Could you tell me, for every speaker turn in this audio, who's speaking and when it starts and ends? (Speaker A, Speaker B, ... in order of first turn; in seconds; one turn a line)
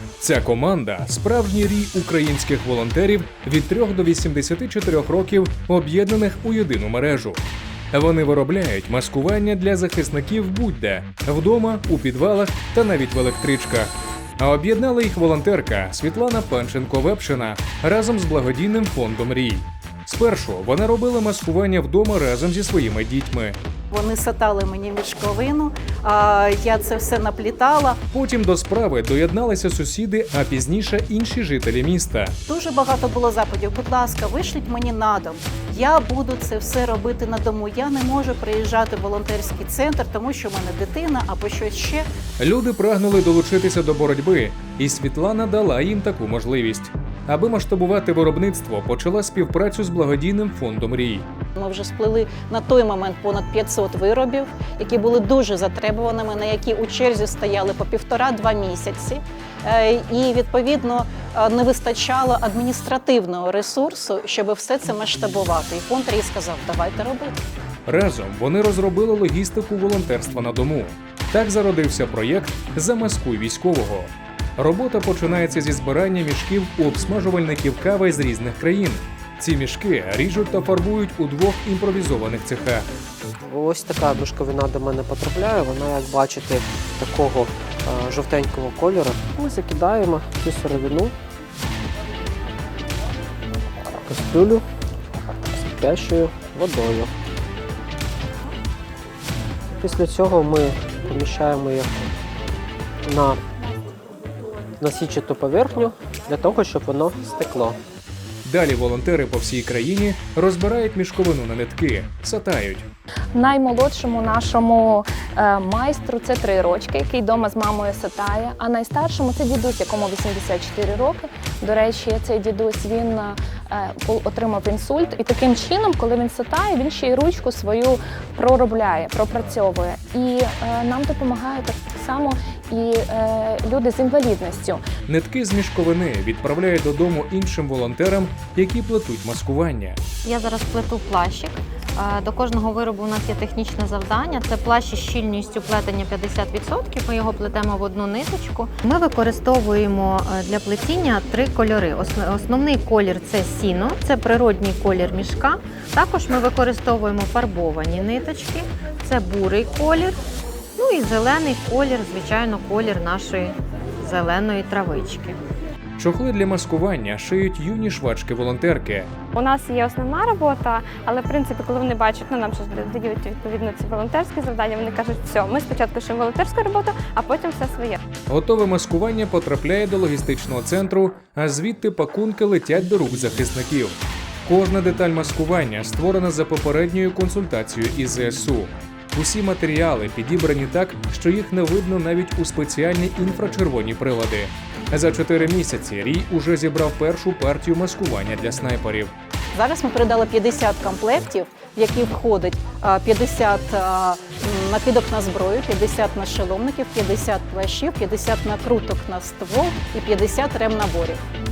Speaker A: 0.2-23.6
Speaker B: 23.9-28.0
Speaker A: 28.1-32.3
Speaker B: 32.5-42.1
Speaker A: 42.4-51.2
Speaker B: 51.5-67.4
Speaker A: 67.9-82.9
Speaker C: 83.4-91.1
Speaker C: 94.0-94.6
Speaker C: 95.5-97.1
Speaker C: 99.7-102.1
Speaker C: 103.0-103.4
Speaker C: 104.8-107.8
Speaker A: 108.4-112.9
Speaker D: 113.3-134.8
Speaker A: 135.1-140.0
Speaker E: 140.2-160.2
Speaker E: 160.8-165.4
Speaker A: 166.0-169.1
Speaker F: 169.3-178.0
Speaker A: 178.3-199.1
Speaker B: 199.5-211.2